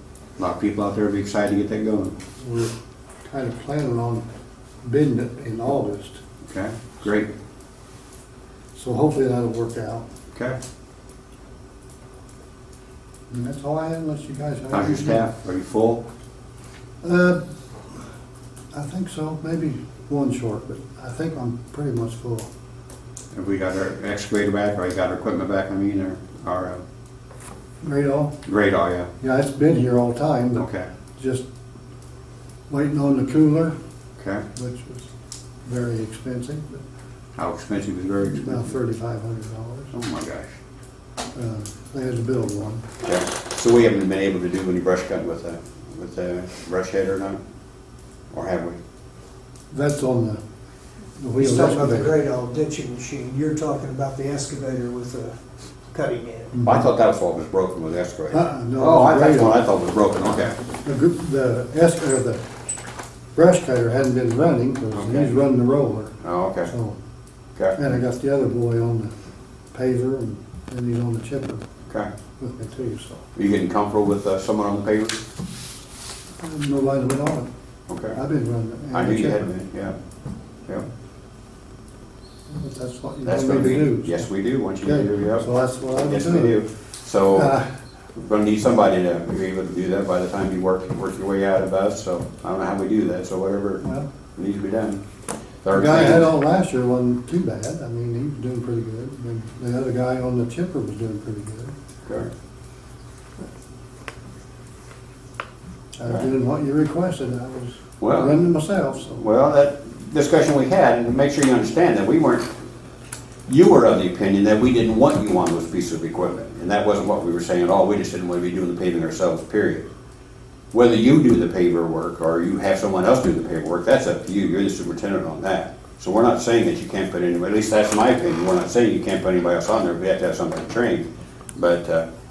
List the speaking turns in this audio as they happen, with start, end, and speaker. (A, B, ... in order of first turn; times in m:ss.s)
0:00.4-0:02.2 A
0:02.4-0:02.7 B
0:03.2-0:04.2 B
0:04.8-0:06.2 B
0:06.4-0:07.3 A
0:08.7-0:10.0 B
0:13.3-0:15.2 B
0:14.7-0:16.0 A
0:17.0-0:18.0 B
0:18.7-0:22.5 B
0:23.3-0:26.8 A
0:27.8-0:28.4 B
0:28.4-0:29.1 A
0:29.2-0:30.6 B
0:30.6-0:30.9 A
0:31.2-0:31.4 B
0:32.7-0:33.7 B
0:34.2-0:34.4 A
0:34.5-0:35.1 B
0:35.6-0:36.8 B
0:37.4-0:38.8 A
0:38.4-0:39.9 B
0:39.9-0:40.6 A
0:41.3-0:42.8 B
0:43.0-0:47.4 A
0:48.3-0:48.8 A
0:49.7-0:50.4 B
0:51.2-0:52.2 B
0:51.4-0:55.4 C
0:55.9-0:56.5 C
0:56.5-0:56.8 B
0:56.6-1:00.6 A
0:58.3-0:59.6 B
1:00.8-1:02.4 B
1:03.3-1:06.1 B
1:04.9-1:05.3 A
1:06.2-1:06.7 A
1:06.6-1:07.0 B
1:07.6-1:07.8 A
1:07.8-1:09.1 B
1:09.7-1:11.6 B
1:12.4-1:13.2 B
1:13.3-1:15.2 A
1:16.4-1:17.5 B
1:17.9-1:18.2 A
1:18.1-1:19.5 B
1:18.9-1:20.0 A
1:22.5-1:24.2 B
1:23.2-1:27.5 A
1:24.8-1:26.6 B
1:27.3-1:27.6 B
1:28.1-1:33.8 A
1:33.8-1:34.1 B
1:34.3-1:35.0 A
1:35.6-1:36.3 A
1:35.7-1:41.7 B
1:42.0-1:42.3 A
1:46.0-1:49.3 B
1:48.0-1:48.4 A
1:49.1-1:52.5 A
1:53.5-1:59.9 A
2:00.7-2:12.0 A